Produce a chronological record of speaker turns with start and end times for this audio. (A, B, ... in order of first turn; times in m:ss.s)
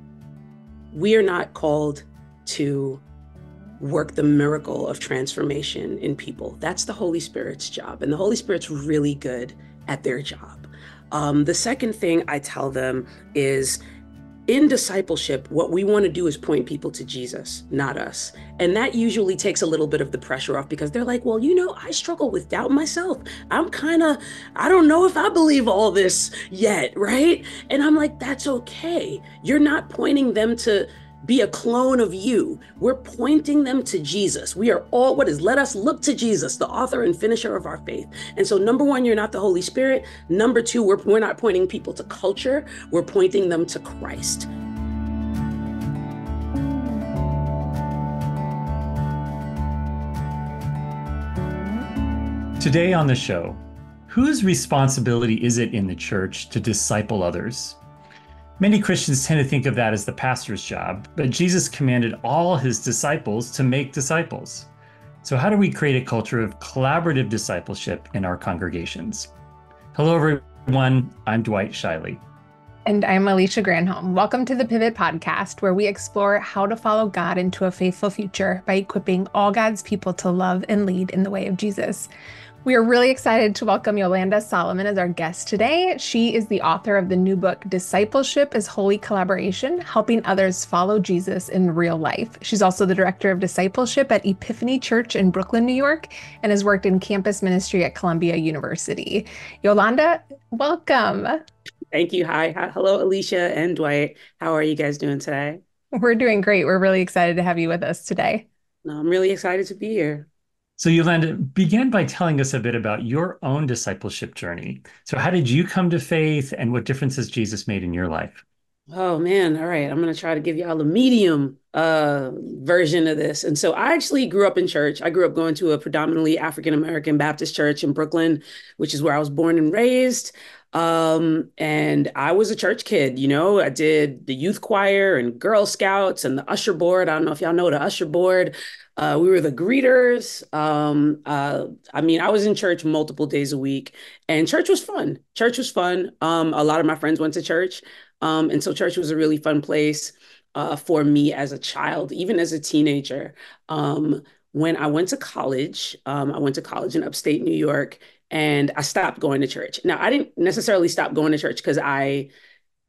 0:00.9-0:03.0 A
0:03.8-0:13.8 A
0:14.5-0:44.5 A
0:52.6-0:57.8 B
0:58.6-1:04.7 B
1:05.2-1:09.3 B
1:09.9-1:12.2 B
1:12.9-1:22.1 C
1:22.6-1:41.4 C
1:41.9-1:45.6 A
1:45.9-1:48.5 C
1:48.8-1:50.3 A
1:50.8-1:58.4 B
1:58.9-2:42.3 A